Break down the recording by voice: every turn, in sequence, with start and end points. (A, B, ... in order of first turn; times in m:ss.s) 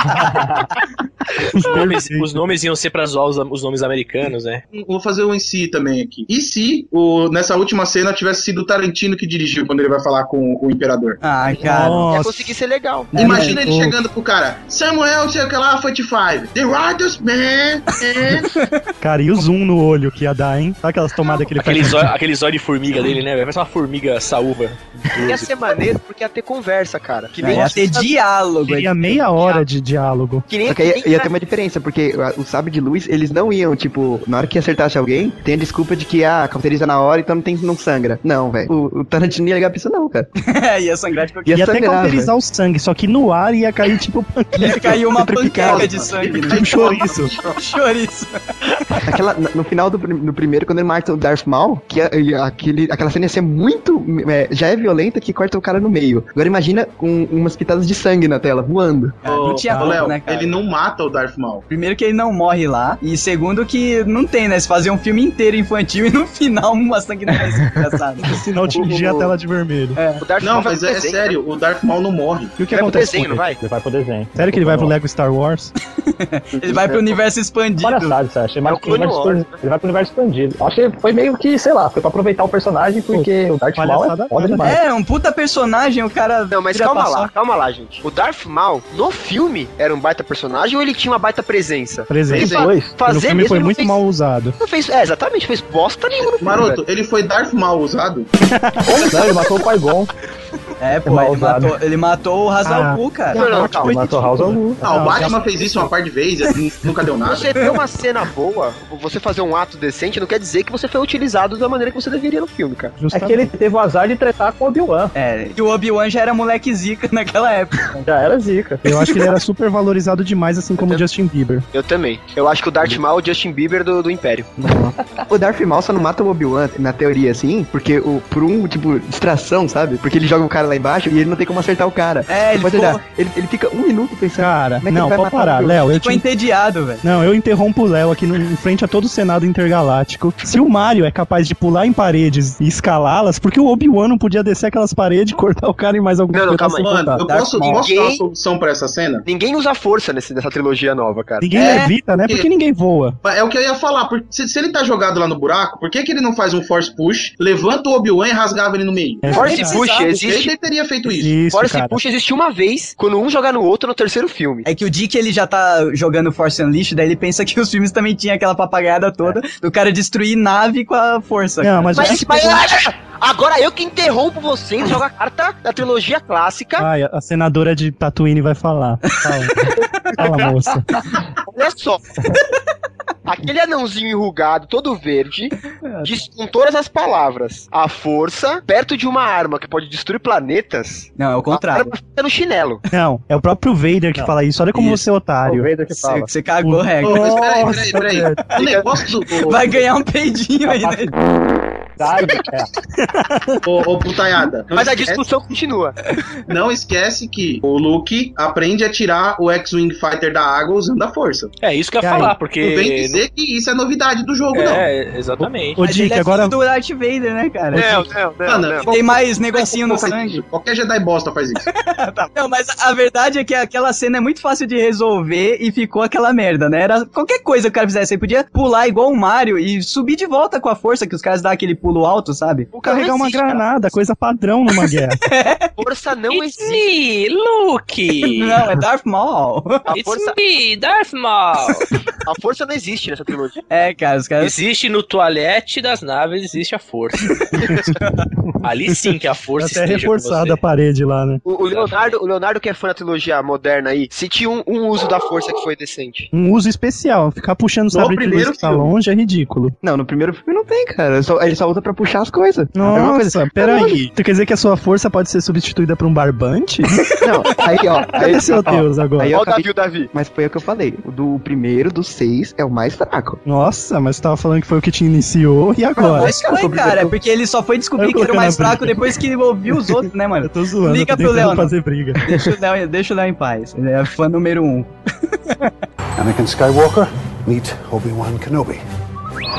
0:01.6-0:02.3 A
0:01.6-0:04.6 B
0:04.7-0:11.2 C
0:11.2-0:12.1 D
0:11.6-0:13.2 E
0:11.6-0:12.5 A
0:13.1-0:14.0 A
0:13.1-0:18.5 C
0:13.2-0:13.6 D
0:18.6-0:18.8 D
0:19.0-0:22.1 A
0:21.6-0:24.8 B
0:25.2-0:28.1 E
0:27.4-0:29.2 D
0:28.7-0:30.5 A
0:29.4-0:29.7 E
0:30.5-0:31.3 E
0:30.6-0:40.3 F
0:40.4-0:41.7 D
0:41.5-0:42.3 F
0:41.5-0:45.8 A
0:44.5-0:48.4 D
0:45.6-0:47.6 C
0:46.5-0:47.3 A
0:49.1-0:59.2 F
0:59.2-1:00.6 D
0:59.2-1:01.6 C
0:59.7-1:00.0 A
1:01.7-1:08.3 D
1:08.2-1:10.0 A
1:10.0-1:10.2 D
1:10.2-1:11.4 E
1:10.4-1:12.6 C
1:12.6-1:13.4 A
1:12.7-1:13.6 E
1:13.5-1:14.9 G
1:14.4-1:15.7 A
1:16.1-1:18.2 D
1:17.8-1:24.8 G
1:18.6-1:19.6 E
1:23.1-1:24.8 A
1:24.6-1:27.3 D
1:26.5-1:34.0 E
1:32.1-1:34.6 A
1:32.3-1:32.7 C
1:32.5-1:33.0 G
1:34.6-1:36.8 E
1:36.3-1:38.3 C
1:38.6-1:39.1 A
1:38.8-1:40.1 G
1:40.8-1:43.8 D
1:41.1-1:41.8 G
1:42.6-1:45.7 A
1:43.3-1:44.0 E
1:43.4-1:44.9 G
1:44.8-1:47.5 C
1:47.2-1:53.0 E
1:53.0-1:53.5 A
1:53.1-1:55.1 G
1:55.2-1:58.0 D
1:58.0-1:59.1 G
1:58.8-2:01.6 A
2:00.8-2:01.0 E
2:01.7-2:04.5 E
2:04.6-2:15.8 F
2:12.3-2:13.0 D
2:14.4-2:16.2 A
2:15.9-2:17.0 D
2:17.0-2:27.8 A
2:26.3-2:26.9 E
2:26.8-2:29.2 C
2:27.2-2:27.8 D
2:27.7-2:28.2 E
2:29.2-2:31.5 E
2:31.4-2:33.2 A
2:31.5-2:32.5 C
2:33.2-2:41.4 C
2:39.2-2:39.8 A
2:39.3-2:40.5 E
2:39.3-2:40.1 D
2:41.1-2:42.0 A
2:41.5-2:44.7 E
2:44.7-2:52.4 D
2:51.6-2:52.6 A
2:51.9-2:56.9 E
2:56.8-2:59.6 A
3:00.1-3:00.9 A
3:01.4-3:02.0 E
3:03.3-3:12.8 E
3:05.8-3:06.1 D
3:11.2-3:11.9 D
3:12.9-3:15.8 A
3:14.2-3:14.9 G
3:15.4-3:16.3 G
3:15.9-3:17.3 D
3:16.6-3:18.4 A
3:17.0-3:19.7 C
3:18.6-3:18.9 E
3:19.4-3:21.1 D
3:20.7-3:22.7 G
3:23.0-3:23.6 A
3:23.6-3:25.3 C
3:24.7-3:26.0 E
3:26.5-3:31.5 C
3:31.6-3:33.2 B
3:32.0-3:32.4 A
3:32.6-3:34.9 C
3:34.5-3:35.8 B
3:35.4-3:36.5 A
3:35.8-3:38.0 D
3:37.7-3:38.1 A
3:37.7-3:38.9 E
3:38.4-3:41.7 C
3:38.9-3:40.4 D
3:41.8-3:52.7 D
3:52.7-3:54.0 E
3:52.8-3:55.2 A
3:55.3-3:55.7 D
3:55.8-3:56.8 E
3:56.3-3:58.6 B
3:58.2-3:59.9 D
3:59.9-4:00.4 E
3:59.9-4:01.9 B
4:02.2-4:03.6 E
4:03.7-4:04.6 D
4:04.4-4:07.7 B
4:08.0-4:08.2 D
4:08.6-4:10.6 B
4:09.6-4:11.4 A
4:11.4-4:16.3 E
4:11.6-4:12.2 B
4:16.3-4:19.8 A
4:17.9-4:18.9 C
4:19.8-4:24.0 F
4:22.7-4:27.0 A
4:27.2-4:33.4 F
4:28.1-4:29.4 A
4:28.3-4:28.6 E
4:29.3-4:30.1 E
4:33.4-4:36.3 A
4:36.0-4:37.1 F
4:36.0-4:45.7 D
4:38.0-4:39.0 A
4:40.4-4:42.2 A
4:46.2-4:48.8 H